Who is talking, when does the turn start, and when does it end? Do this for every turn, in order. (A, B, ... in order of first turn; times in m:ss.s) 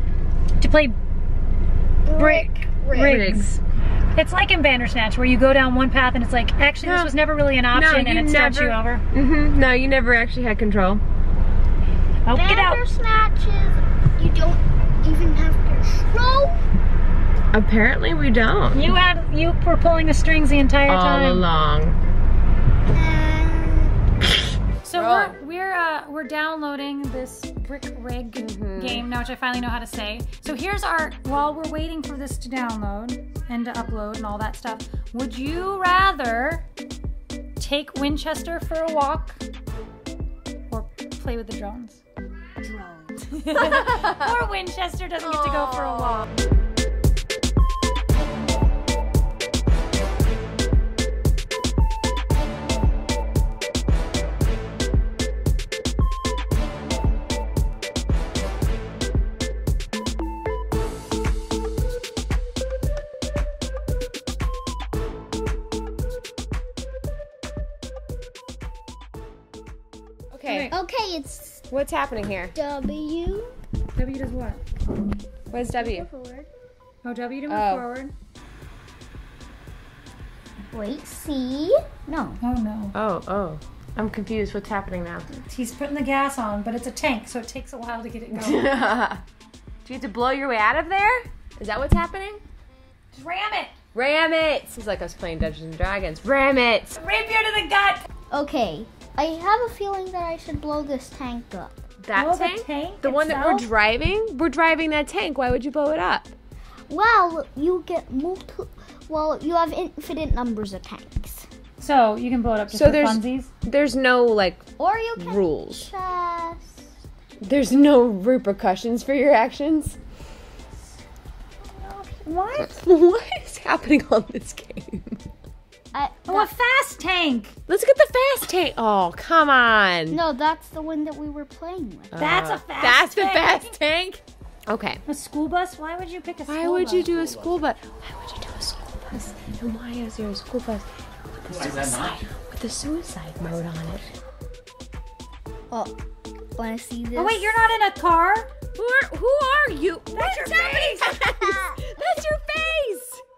0:00.6-0:01.0 A
0:02.0-0:03.2 B
0:02.1-0:03.6 A
0:02.9-0:03.5 C
0:04.1-0:09.0 A
0:06.8-0:07.1 C
0:07.7-0:11.0 C
0:12.2-0:12.8 A
0:12.3-0:16.6 B
0:17.5-0:18.9 C
0:18.7-0:21.5 A
0:20.9-0:22.0 C
0:22.9-0:23.9 B
0:24.8-0:36.6 A
0:24.9-0:25.4 C
0:28.4-0:29.1 C
0:37.6-0:39.4 A
0:40.7-0:42.0 A
0:42.6-0:46.2 A
1:10.3-1:10.7 C
1:10.4-1:10.8 A
1:10.7-1:11.6 B
1:11.7-1:12.5 C
1:12.5-1:13.6 B
1:14.0-1:14.6 A
1:15.5-1:16.0 C
1:15.6-1:16.5 B
1:17.0-1:18.1 A
1:17.5-1:17.9 C
1:20.7-1:22.4 B
1:22.4-1:22.9 A
1:22.9-1:25.3 C
1:25.3-1:28.7 A
1:28.3-1:29.2 C
1:29.8-1:32.4 C
1:33.1-1:33.7 A
1:33.9-1:37.0 C
1:37.0-1:38.1 A
1:38.3-1:41.8 B
1:42.0-1:46.3 C
1:42.1-1:43.7 A
1:46.9-1:51.4 B
1:51.8-1:53.5 A
1:52.7-1:55.9 C
1:54.8-1:56.9 B
1:57.4-2:00.0 C
2:01.8-2:02.7 A
2:02.6-2:05.2 C
2:05.9-2:06.5 B
2:06.2-2:07.5 A
2:07.7-2:10.2 C
2:10.1-2:12.2 B
2:12.1-2:15.0 C
2:12.2-2:13.8 A
2:15.0-2:17.3 A
2:16.5-2:24.1 C
2:25.7-2:25.9 B
2:26.5-2:27.6 B
2:27.2-2:28.5 A
2:28.7-2:33.2 C
2:30.1-2:31.2 A
2:31.3-2:31.8 B